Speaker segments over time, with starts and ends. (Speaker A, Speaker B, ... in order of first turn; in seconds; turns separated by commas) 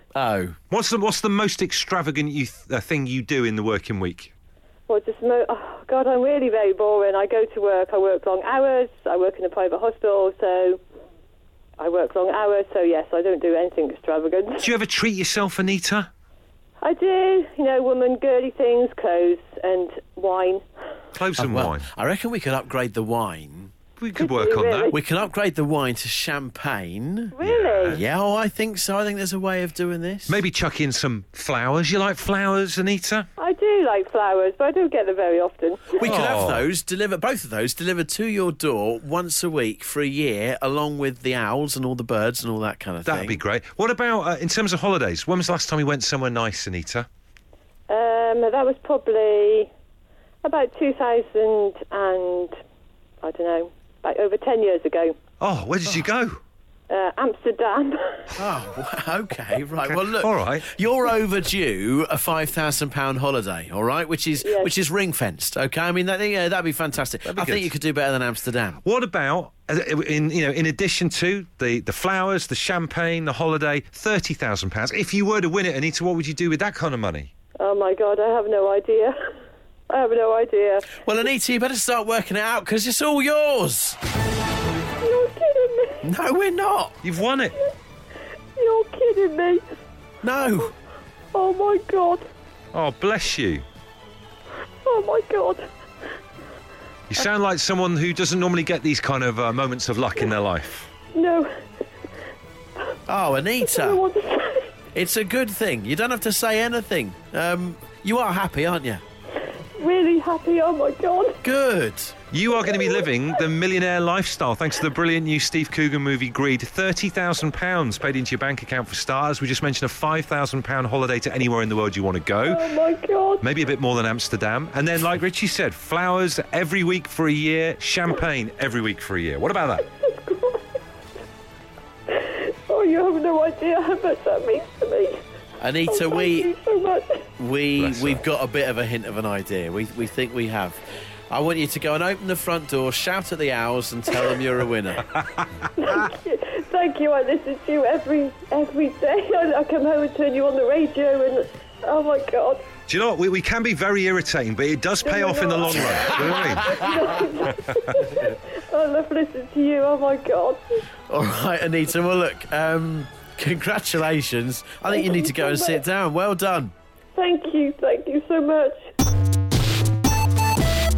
Speaker A: 0.1-0.6, Speaker B: 0.7-4.3, Speaker C: 4.9-10.8, Speaker C: 11.8-14.7, Speaker B: 14.6-16.1, Speaker C: 16.8-20.6, Speaker B: 21.1-21.9, Speaker A: 21.4-23.7, Speaker B: 24.0-24.9, Speaker C: 24.1-25.0, Speaker A: 24.9-27.3, Speaker C: 27.3-28.0, Speaker B: 27.4-28.0, Speaker A: 27.9-30.4, Speaker B: 30.3-33.3, Speaker C: 33.4-36.0, Speaker A: 35.9-43.4, Speaker B: 36.0-36.6, Speaker B: 43.0-47.1, Speaker C: 47.9-49.7, Speaker C: 50.4-52.5, Speaker C: 53.2-55.1, Speaker B: 55.4-56.4, Speaker C: 56.9-58.3, Speaker A: 58.4-68.8, Speaker B: 59.8-60.7, Speaker C: 64.4-64.7, Speaker B: 67.3-67.7, Speaker B: 68.8-77.3, Speaker C: 77.6-79.1, Speaker C: 79.9-81.0, Speaker A: 81.0-84.0, Speaker C: 85.0-86.0, Speaker A: 86.0-86.9, Speaker B: 87.0-87.5, Speaker C: 88.5-89.6, Speaker A: 90.2-90.7, Speaker C: 91.3-92.2, Speaker B: 92.7-93.6, Speaker C: 94.8-95.7, Speaker B: 97.1-100.9, Speaker C: 101.1-101.5, Speaker A: 103.1-104.0, Speaker C: 103.6-104.7, Speaker A: 104.9-109.0, Speaker C: 109.8-111.4, Speaker A: 111.4-112.1, Speaker B: 112.3-122.7, Speaker C: 112.7-113.0, Speaker C: 122.5-123.4, Speaker B: 123.4-129.8, Speaker C: 130.0-130.8, Speaker C: 132.1-135.2, Speaker A: 135.6-136.5, Speaker C: 135.9-137.2, Speaker A: 137.4-145.1, Speaker B: 137.8-138.2, Speaker B: 145.1-145.4, Speaker C: 145.8-152.7, Speaker B: 152.9-156.7, Speaker C: 155.0-160.6, Speaker A: 156.0-156.5, Speaker B: 157.5-157.9, Speaker A: 161.1-166.7, Speaker C: 164.9-165.8, Speaker C: 167.2-168.8